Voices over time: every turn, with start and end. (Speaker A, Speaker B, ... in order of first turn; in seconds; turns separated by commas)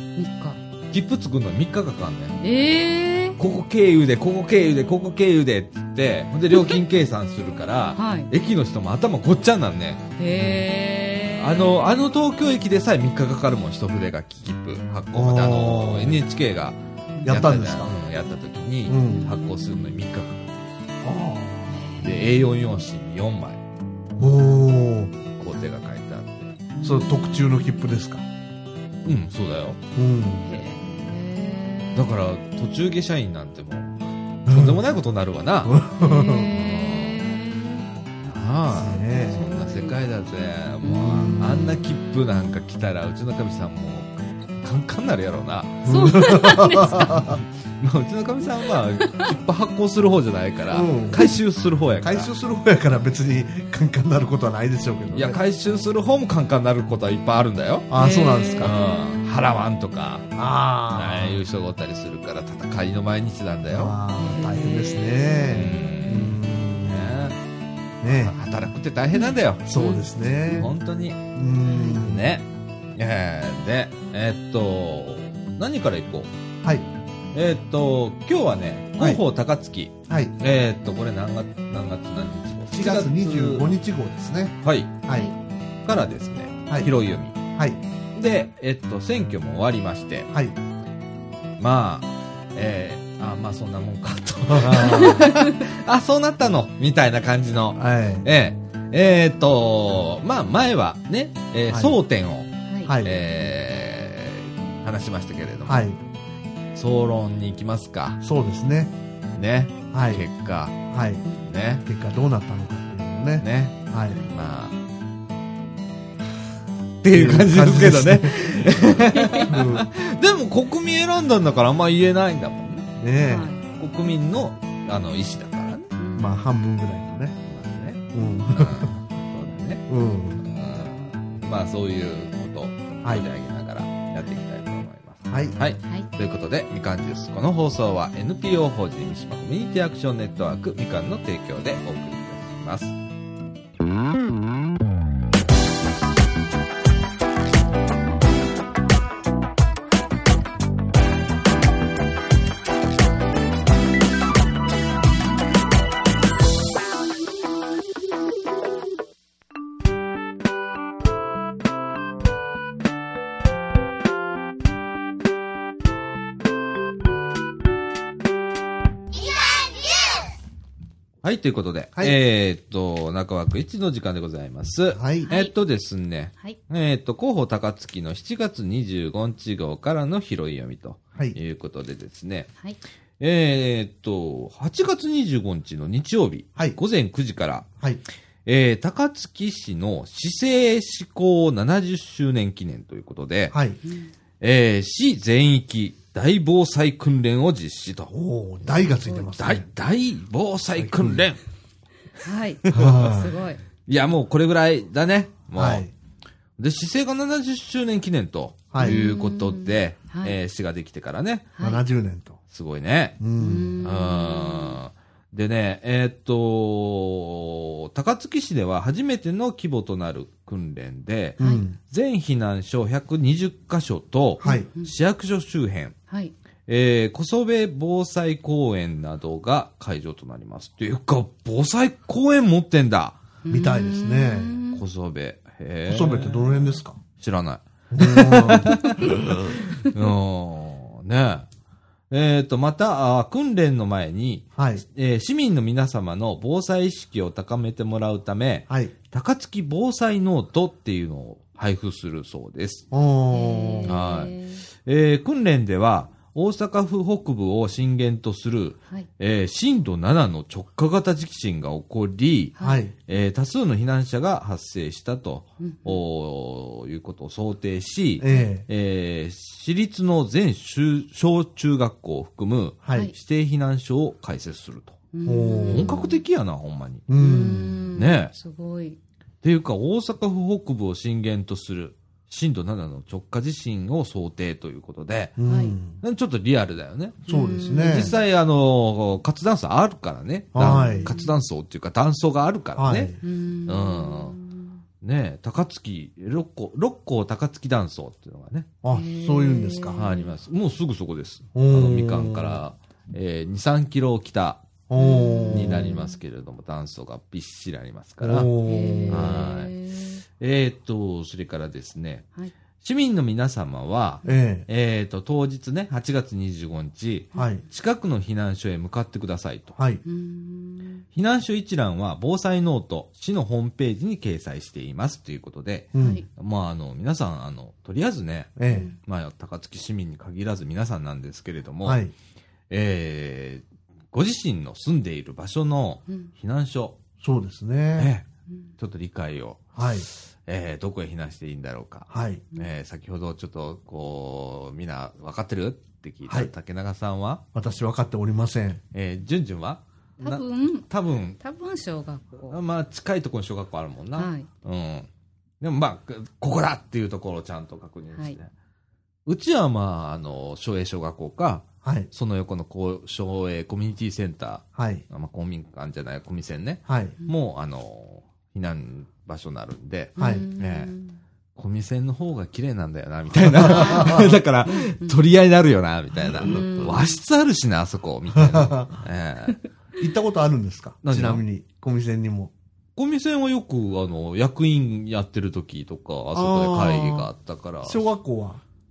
Speaker A: 0.1-0.6, Speaker B: 0.9-2.4, Speaker A: 2.4-3.4, Speaker B: 3.4-10.0, Speaker A: 8.0-8.3, Speaker A: 10.2-11.8, Speaker C: 10.3-10.7, Speaker B: 11.4-20.5, Speaker C: 15.1-16.2, Speaker C: 17.2-17.9, Speaker C: 18.9-19.3, Speaker A: 18.9-19.9, Speaker C: 21.0-21.9, Speaker A: 21.6-22.4, Speaker B: 22.0-23.6, Speaker C: 24.2-25.1, Speaker B: 25.3-26.5, Speaker A: 26.7-27.8, Speaker C: 26.8-28.2, Speaker B: 29.0-29.8, Speaker C: 29.9-30.5, Speaker A: 30.4-32.1, Speaker B: 31.9-35.8, Speaker C: 34.5-34.8, Speaker C: 35.6-36.5, Speaker A: 36.0-37.9, Speaker B: 36.4-37.2, Speaker B: 38.3-52.3, Speaker C: 38.7-39.5, Speaker A: 39.0-40.0, Speaker A: 40.8-42.3, Speaker C: 41.0-41.6, Speaker C: 45.8-47.4, Speaker A: 45.9-47.2, Speaker C: 50.7-51.2, Speaker C: 52.0-55.4, Speaker B: 55.1-57.9, Speaker C: 57.9-58.7, Speaker A: 57.9-59.2, Speaker B: 58.6-60.3, Speaker C: 60.3-61.4, Speaker B: 60.9-64.0, Speaker C: 63.7-67.2, Speaker A: 64.2-66.2, Speaker B: 65.5-67.4, Speaker C: 68.0-68.3, Speaker B: 68.1-69.7, Speaker A: 69.1-70.0, Speaker C: 69.7-70.7, Speaker B: 70.5-71.2, Speaker C: 71.3-72.2, Speaker A: 71.7-72.0, Speaker B: 72.0-76.3, Speaker B: 77.3-83.7, Speaker C: 80.1-80.3, Speaker C: 82.7-85.3, Speaker B: 84.6-85.0, Speaker A: 85.1-85.3, Speaker B: 85.8-87.4, Speaker C: 87.5-87.8, Speaker B: 88.1-90.3, Speaker B: 91.6-105.9, Speaker C: 94.5-95.3, Speaker A: 95.0-95.4, Speaker C: 97.8-98.2, Speaker A: 102.7-103.0, Speaker C: 102.8-103.2, Speaker C: 105.7-106.0, Speaker B: 106.7-108.2, Speaker C: 108.2-108.9, Speaker B: 109.3-110.8, Speaker C: 109.9-110.2, Speaker C: 110.9-111.2, Speaker B: 111.4-111.8, Speaker C: 111.8-114.2, Speaker B: 113.4-114.8, Speaker A: 114.0-114.3, Speaker B: 117.0-122.9, Speaker C: 117.1-119.9, Speaker A: 119.1-119.5, Speaker C: 123.0-123.5, Speaker A: 123.2-123.6, Speaker B: 123.7-125.9, Speaker A: 126.0-126.4, Speaker C: 126.2-127.3, Speaker B: 127.4-129.9, Speaker C: 128.1-128.9, Speaker C: 129.9-130.4, Speaker B: 130.4-142.9, Speaker C: 135.3-135.6, Speaker B: 171.2-182.5, Speaker C: 174.9-175.3, Speaker A: 175.2-175.5, Speaker B: 183.2-187.7, Speaker B: 188.4-193.6, Speaker C: 193.5-193.8, Speaker A: 193.8-194.1, Speaker B: 194.4-198.1, Speaker C: 198.1-199.7, Speaker A: 199.0-199.3, Speaker B: 199.4-201.4, Speaker C: 200.8-201.2, Speaker A: 202.2-203.6, Speaker B: 202.7-203.1, Speaker C: 202.7-203.4, Speaker B: 203.8-205.8, Speaker C: 205.5-205.9, Speaker B: 206.6-211.4, Speaker C: 208.7-209.0, Speaker A: 208.8-210.3, Speaker A: 211.5-211.8, Speaker C: 211.6-212.4, Speaker B: 212.5-213.2, Speaker C: 213.2-213.7, Speaker A: 213.4-214.8, Speaker B: 213.8-225.9, Speaker A: 221.4-221.7, Speaker C: 221.4-221.8, Speaker C: 224.4-224.7, Speaker A: 224.4-224.9, Speaker B: 226.7-233.2, Speaker A: 233.4-234.8, Speaker C: 233.5-234.6, Speaker B: 234.7-241.5, Speaker C: 235.9-237.0, Speaker C: 237.9-238.9, Speaker B: 242.1-252.8, Speaker C: 244.6-244.8, Speaker C: 252.9-254.0, Speaker A: 253.3-254.6, Speaker B: 253.8-262.5, Speaker A: 262.6-262.8, Speaker C: 262.6-262.9, Speaker B: 263.1-275.0, Speaker A: 265.6-266.0, Speaker C: 268.2-268.6, Speaker C: 272.8-273.1, Speaker A: 275.1-276.2, Speaker C: 275.2-276.0, Speaker B: 275.7-277.1, Speaker C: 277.1-277.9, Speaker A: 277.1-279.0, Speaker B: 277.9-278.3, Speaker B: 279.4-285.4, Speaker C: 285.4-286.0, Speaker A: 285.4-285.8, Speaker B: 286.0-287.2, Speaker C: 287.3-288.1, Speaker A: 287.3-288.1, Speaker B: 287.8-293.1, Speaker C: 290.5-291.1, Speaker A: 290.6-291.3, Speaker C: 292.8-293.2, Speaker A: 293.2-294.8, Speaker B: 293.7-294.4, Speaker B: 295.0-298.7, Speaker C: 298.8-300.0, Speaker A: 298.9-300.3, Speaker B: 299.9-304.6, Speaker C: 301.5-302.6, Speaker C: 304.9-306.0, Speaker A: 304.9-306.1, Speaker B: 305.5-308.5, Speaker C: 308.2-309.5, Speaker A: 308.6-310.2, Speaker B: 309.1-309.7, Speaker B: 310.4-312.2, Speaker B: 312.8-319.7, Speaker C: 314.2-314.7, Speaker C: 317.3-317.6, Speaker C: 319.8-320.0, Speaker A: 320.0-321.0, Speaker B: 321.1-328.5, Speaker C: 325.9-326.2, Speaker A: 325.9-326.2, Speaker C: 328.6-328.9, Speaker A: 328.7-328.9, Speaker B: 329.0-332.0, Speaker C: 331.8-332.1, Speaker B: 332.7-337.0, Speaker C: 337.2-338.1, Speaker B: 338.0-338.2, Speaker B: 338.8-347.4, Speaker C: 339.7-340.1, Speaker C: 342.1-342.4, Speaker C: 347.5-348.8, Speaker B: 348.9-351.4, Speaker A: 350.2-350.9, Speaker A: 351.4-352.6, Speaker B: 352.5-355.1, Speaker A: 354.1-354.5, Speaker B: 355.6-358.5, Speaker B: 359.2-370.9, Speaker C: 361.8-362.1, Speaker C: 364.8-365.0, Speaker C: 366.9-367.1, Speaker A: 370.1-371.2, Speaker C: 370.2-370.4, Speaker B: 371.6-379.6, Speaker C: 373.4-374.3, Speaker A: 373.6-375.2, Speaker A: 376.4-377.2, Speaker C: 378.3-379.0, Speaker C: 380.0-382.5, Speaker B: 381.0-381.4, Speaker B: 382.9-388.1, Speaker C: 386.3-387.3, Speaker C: 387.8-388.6